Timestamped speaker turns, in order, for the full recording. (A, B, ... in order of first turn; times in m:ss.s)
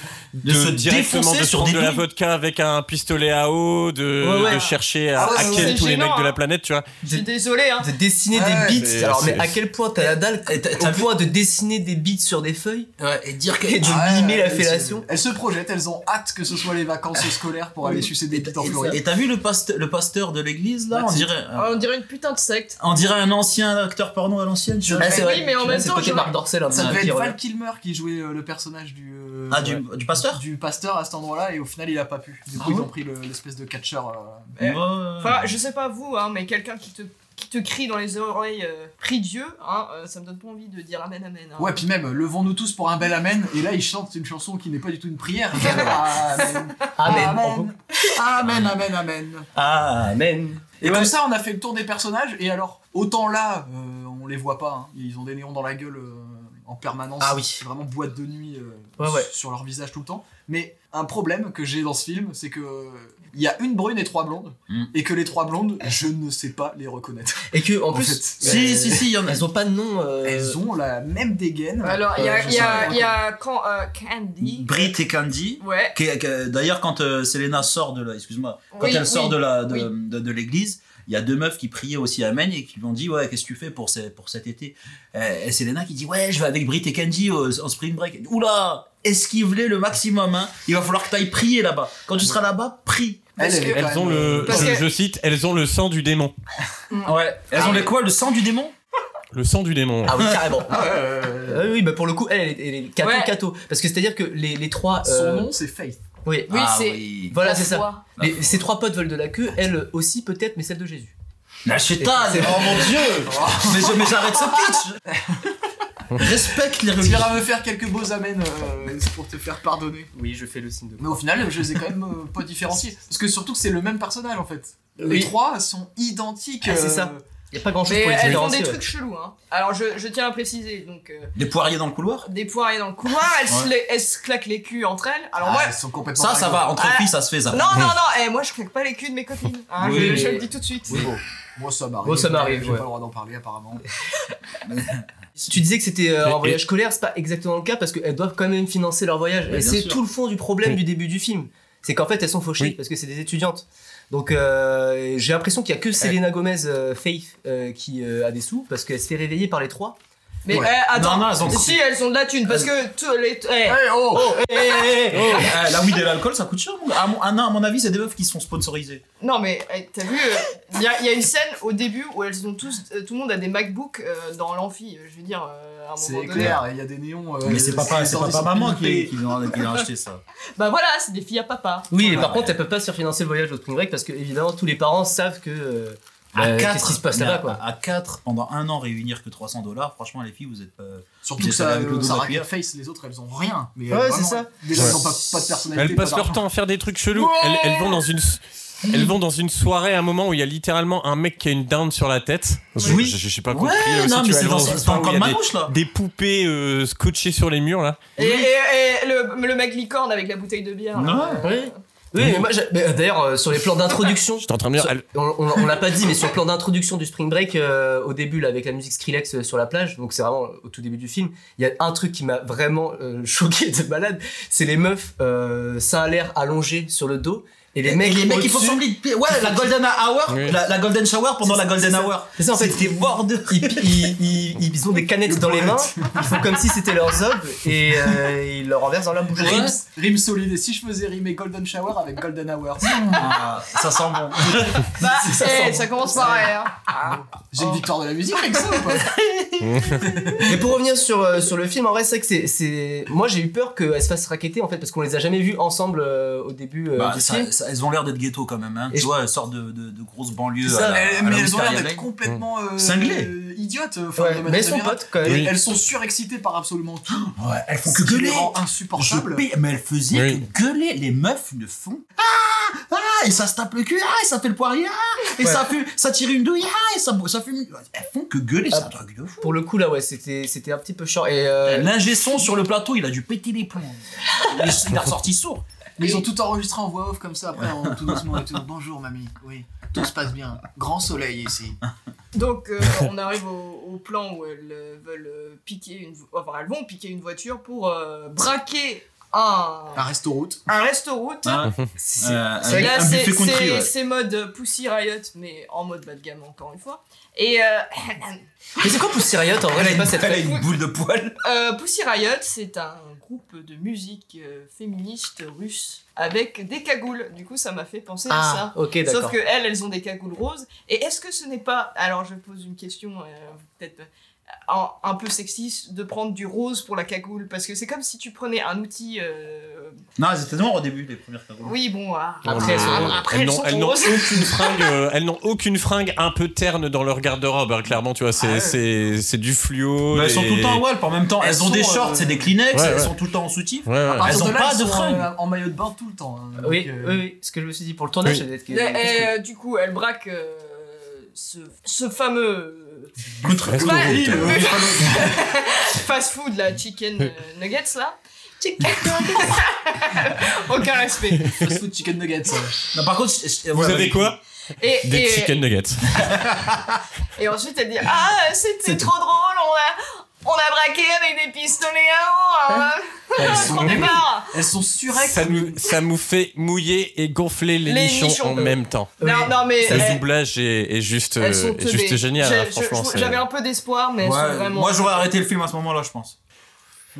0:00.3-0:06.8 A
0:00.4-0:02.0 B
0:04.2-0:04.6 C
0:04.4-0:04.7 D
0:05.1-0:05.8 E
0:05.3-0:06.4 D
0:07.0-0:07.9 D
0:07.8-0:12.9 C
0:08.3-0:09.1 E
0:08.8-0:09.5 A
0:10.4-0:11.1 B
0:13.0-0:14.0 B
0:13.6-0:15.0 C
0:13.8-0:19.0 E
0:18.3-0:21.8 B
0:20.9-0:21.2 C
0:21.5-0:22.8 D
0:22.8-0:25.3 B
0:24.8-0:25.3 E
0:25.0-0:27.4 C
0:25.1-0:26.4 D
0:26.7-0:34.5 E
0:26.7-0:27.0 B
0:29.5-0:30.4 B
0:32.6-0:32.9 C
0:34.6-0:41.8 D
0:34.6-0:35.5 B
0:41.6-0:49.5 E
0:45.6-0:46.6 D
0:47.0-0:47.7 C
0:49.6-0:51.1 C
0:50.8-1:08.8 E
0:57.2-0:57.6 C
0:59.0-0:59.3 C
1:07.5-1:10.6 C
1:08.4-1:09.4 B
1:10.2-1:13.2 E
1:11.8-1:14.9 D
1:12.2-1:12.6 C
1:12.5-1:12.8 B
1:14.4-1:33.3 B
1:15.6-1:16.0 D
1:18.7-1:19.9 D
1:33.4-1:34.8 E
1:33.4-1:33.8 D
1:33.7-1:36.3 A
1:34.4-1:34.8 D
1:36.9-1:37.9 D
1:37.0-1:38.7 B
1:39.3-1:40.2 A
1:40.0-1:40.8 C
1:40.6-1:41.7 E
1:41.5-1:45.5 C
1:43.0-1:43.3 D
1:45.0-1:46.0 E
1:46.2-1:46.6 C
1:46.5-1:47.4 B
1:46.5-1:48.0 D
1:47.1-1:51.1 C
1:48.2-1:48.4 B
1:51.6-1:55.0 B
1:52.0-1:53.0 C
1:53.1-1:54.3 E
1:55.1-1:55.5 E
1:56.2-1:57.4 B
1:57.0-2:00.1 E
2:00.1-2:01.6 C
2:01.0-2:07.2 E
2:05.0-2:05.3 C
2:06.6-2:08.8 C
2:07.8-2:11.3 D
2:11.4-2:12.3 B
2:12.2-2:15.8 D
2:15.4-2:16.8 E
2:16.2-2:17.9 B
2:16.8-2:21.1 D
2:19.8-2:20.4 B
2:19.8-2:21.1 C
2:21.6-2:23.8 E
2:22.0-2:22.9 C
2:24.6-2:25.0 B
2:25.4-2:40.0 C
2:26.2-2:26.6 A
2:29.5-2:30.0 B
2:40.4-2:43.8 D
2:40.5-2:41.8 B
2:43.6-2:44.3 E
2:44.1-2:45.5 C
2:44.4-2:45.5 D
2:45.2-2:49.0 B
2:49.2-2:56.6 D
2:56.0-2:59.1 E
2:57.4-3:00.2 B
3:00.6-3:02.3 D
3:01.9-3:07.6 C
3:02.1-3:02.6 B
3:06.3-3:12.5 B
3:11.2-3:16.4 E
3:13.9-3:15.1 C
3:15.7-3:28.0 A
3:17.3-3:18.0 D
3:22.8-3:25.7 B
3:28.2-3:31.7 D
3:30.9-3:31.4 B
3:31.4-3:48.8 C
3:32.2-3:32.5 A
3:34.4-3:35.0 A
3:47.8-3:54.2 B
3:50.3-3:50.6 A
3:51.4-3:59.8 C
3:55.2-3:56.4 E
3:59.4-3:59.7 B
3:59.4-4:03.3 E
4:03.1-4:04.9 B
4:04.4-4:09.2 E
4:05.0-4:07.2 D
4:09.6-4:10.0 A
4:10.0-4:10.6 E
4:10.4-4:17.5 C
4:16.9-4:22.1 B
4:20.6-4:21.0 C
4:20.8-4:27.3 E
4:22.8-4:23.3 B
4:24.2-4:25.5 C
4:25.2-4:25.5 A
4:27.1-4:39.5 B
4:27.9-4:29.4 E
4:30.1-4:30.4 A
4:38.7-4:41.9 C
4:41.6-4:45.6 B
4:46.0-4:51.8 E
4:47.8-4:48.4 B
4:52.3-5:00.0 D
5:00.0-5:00.6 E
5:00.7-5:01.7 D
5:01.4-5:03.9 B
5:02.1-5:03.0 C
5:02.7-5:08.4 D
5:08.8-5:10.6 C
5:09.7-5:11.4 B
5:11.4-5:24.1 D
5:18.3-5:19.4 C
5:24.7-5:30.0 D
5:30.2-5:31.7 B
5:31.6-5:34.9 D
5:32.4-5:33.0 C
5:32.4-5:40.8 A
5:32.6-5:33.2 B
5:38.4-5:38.8 E
5:40.1-5:45.3 B
5:41.4-5:42.5 E
5:42.7-5:43.1 A
5:43.8-5:44.3 A
5:44.1-5:47.2 E
5:46.6-5:49.3 C
5:48.7-5:53.1 D
5:53.4-5:54.6 B
5:53.5-5:55.4 E
5:53.6-5:54.5 A
5:54.4-6:01.5 D
6:01.4-6:01.7 A
6:01.6-6:02.8 E
6:02.9-6:04.4 B
6:03.7-6:04.4 A
6:04.8-6:05.6 D
6:05.0-6:06.2 A
6:06.2-6:06.6 B
6:07.4-6:14.5 D
6:13.4-6:15.9 E
6:13.4-6:14.1 A
6:15.2-6:19.2 A
6:17.8-6:20.2 D
6:19.2-6:19.6 C
6:19.8-6:23.4 A
6:21.4-6:25.3 D
6:24.2-6:26.4 B